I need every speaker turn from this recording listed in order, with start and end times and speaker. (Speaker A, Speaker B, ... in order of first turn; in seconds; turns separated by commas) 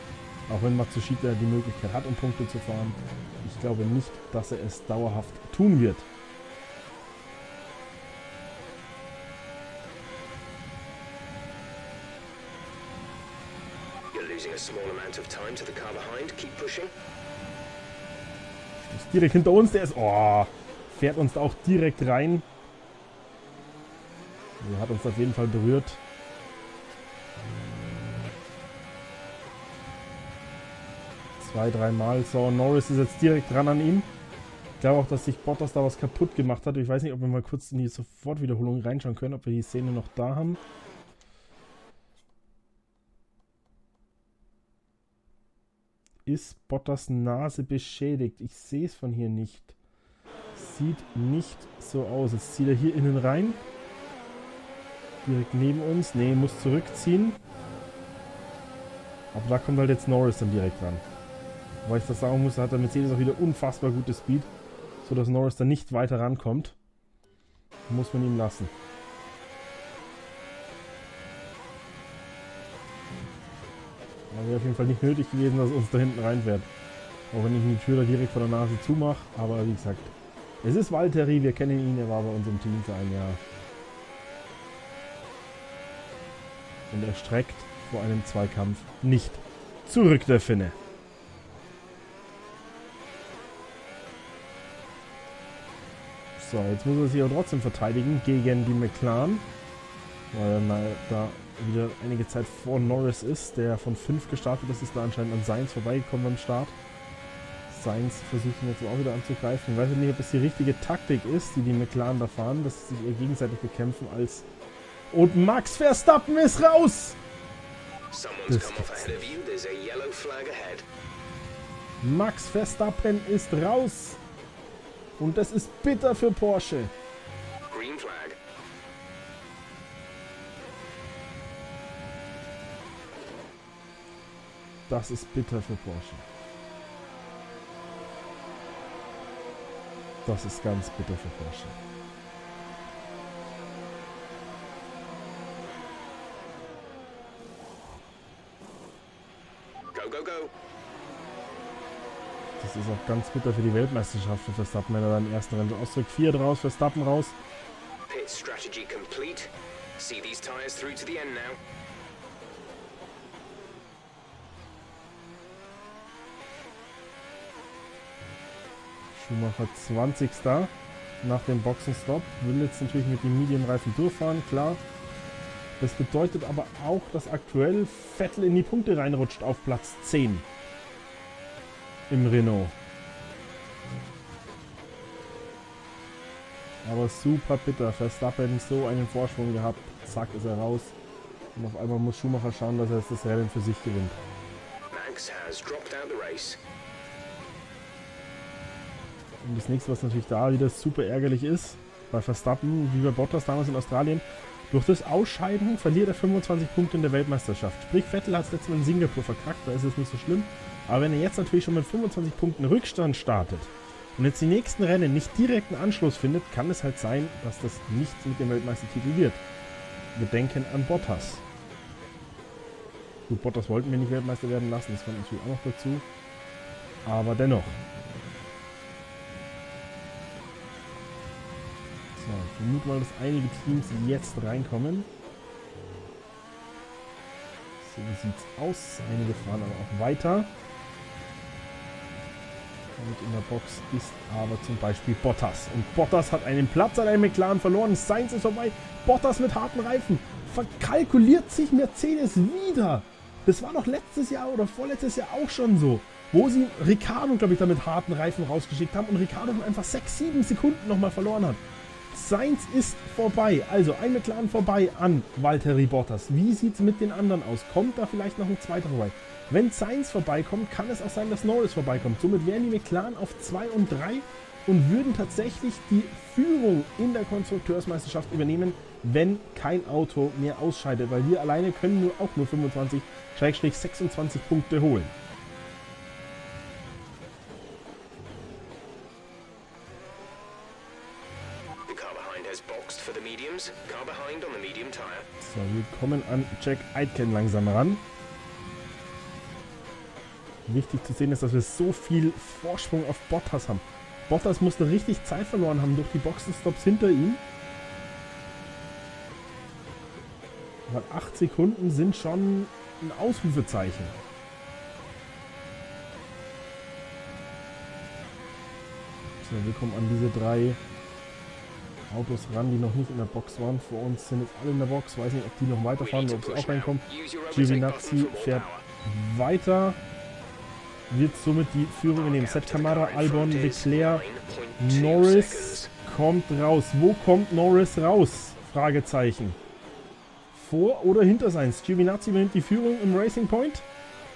Speaker A: 0.5-6.1, Speaker B: 14.1-16.9, Speaker A: 18.8-22.5, Speaker A: 24.6-26.0, Speaker A: 31.4-34.1, Speaker A: 34.8-40.6, Speaker A: 46.2-49.8, Speaker A: 50.5-53.6, Speaker A: 55.2-57.4, Speaker A: 59.3-61.0, Speaker A: 61.8-64.5, Speaker A: 65.0-66.8, Speaker A: 67.9-68.7, Speaker A: 74.3-76.7, Speaker A: 77.3-83.4, Speaker A: 86.9-90.8, Speaker A: 96.4-99.5, Speaker A: 100.3-106.8, Speaker A: 107.7-114.5, Speaker A: 115.1-117.2, Speaker B: 118.1-120.8, Speaker A: 118.5-119.4, Speaker A: 122.0-124.2, Speaker A: 125.2-126.9, Speaker B: 127.7-128.4, Speaker A: 134.9-136.2, Speaker A: 140.2-141.8, Speaker B: 149.9-150.5, Speaker A: 152.6-157.3, Speaker B: 158.1-161.6, Speaker A: 169.1-174.8, Speaker A: 175.8-180.5, Speaker A: 182.1-182.8, Speaker A: 186.8-190.9, Speaker A: 191.5-194.2, Speaker B: 194.9-196.6, Speaker A: 199.4-219.4, Speaker A: 220.1-221.4, Speaker A: 223.3-226.1, Speaker A: 227.1-227.8, Speaker A: 232.1-235.1, Speaker A: 237.8-240.5, Speaker A: 243.0-285.1, Speaker B: 291.9-295.3, Speaker A: 295.4-298.0, Speaker A: 300.7-307.4, Speaker A: 310.9-314.2, Speaker A: 319.4-320.8, Speaker A: 322.1-330.0, Speaker B: 326.0-328.8, Speaker A: 331.1-334.2, Speaker B: 332.1-335.9, Speaker A: 334.8-339.6, Speaker A: 340.5-343.8